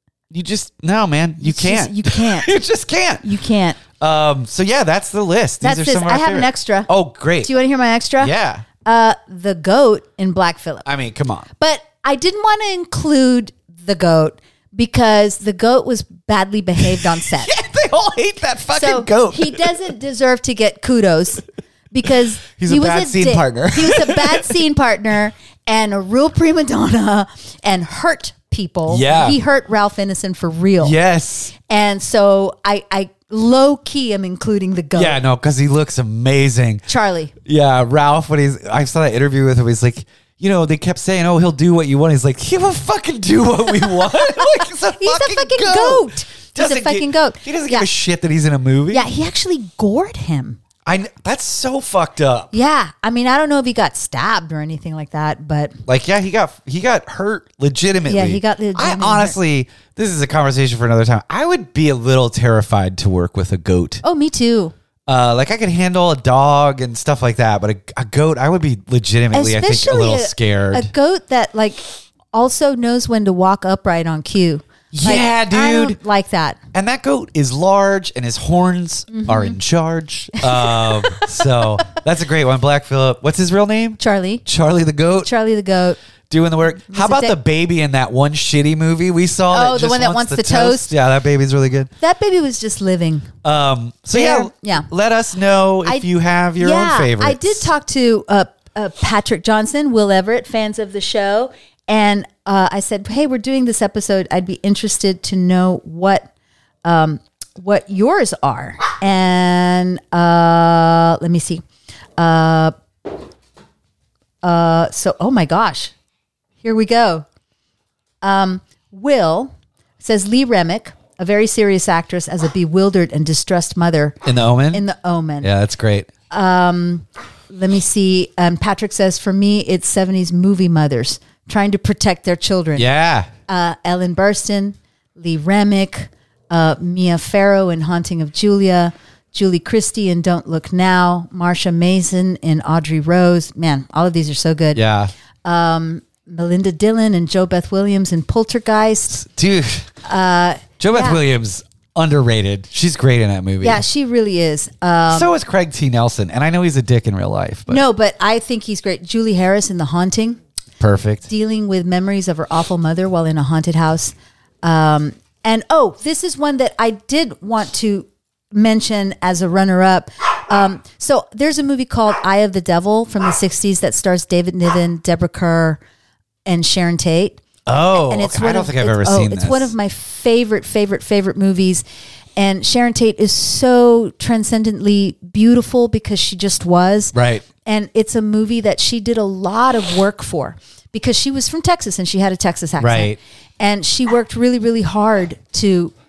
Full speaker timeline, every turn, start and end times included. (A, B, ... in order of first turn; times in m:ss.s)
0:00.3-0:03.3 A
0:01.4-0:02.5 B
0:03.2-0:03.8 B
0:03.9-0:07.5 A
0:05.6-0:06.9 B
0:07.4-0:08.3 B
0:08.2-0:08.6 A
0:08.8-0:10.8 B
0:10.8-0:11.5 A
0:11.6-0:17.5 B
0:16.8-0:19.9 A
0:18.7-0:30.9 B
0:22.6-0:24.6 A
0:28.9-0:29.4 A
0:30.8-0:31.5 A
0:31.7-0:35.2 B
0:35.0-0:36.9 A
0:36.9-0:37.3 B
0:37.4-0:49.0 A
0:44.0-0:47.9 B
0:48.9-0:50.6 B
0:50.8-0:52.5 A
0:52.5-0:55.7 B
0:55.9-1:04.0 A
0:58.0-0:59.4 B
1:04.0-1:04.7 B
1:05.1-1:10.9 A
1:09.3-1:11.8 B
1:12.3-1:16.6 B
1:14.9-1:16.0 A
1:16.7-1:25.3 A
1:19.1-1:19.6 B
1:20.4-1:22.0 B
1:24.0-1:24.4 B
1:25.2-1:26.0 B
1:26.3-1:31.9 A
1:26.9-1:27.3 B
1:29.5-1:30.9 B
1:32.0-1:33.3 B
1:33.4-1:37.7 A
1:34.1-1:34.9 B
1:36.6-1:46.3 B
1:46.8-1:51.6 B
1:52.2-1:52.7 B
1:54.4-1:55.9 B
1:56.6-1:57.2 B
1:58.2-2:04.2 B
2:04.2-2:04.8 A
2:04.7-2:05.5 B
2:05.4-2:06.1 A
2:06.3-2:12.8 B
2:12.8-2:13.3 A
2:13.5-2:24.8 B
2:24.7-2:25.1 A
2:25.4-2:29.2 B
2:29.1-2:29.9 A
2:30.0-2:31.2 B
2:30.8-2:33.8 A
2:33.6-2:35.3 B
2:35.1-2:37.8 A
2:37.7-2:40.4 B
2:40.8-2:41.3 A
2:41.3-2:55.8 B
2:56.4-2:57.4 B
2:57.6-2:59.7 A
2:58.0-3:01.8 B
3:02.4-3:15.9 B
3:07.1-3:07.4 A
3:12.8-3:13.2 A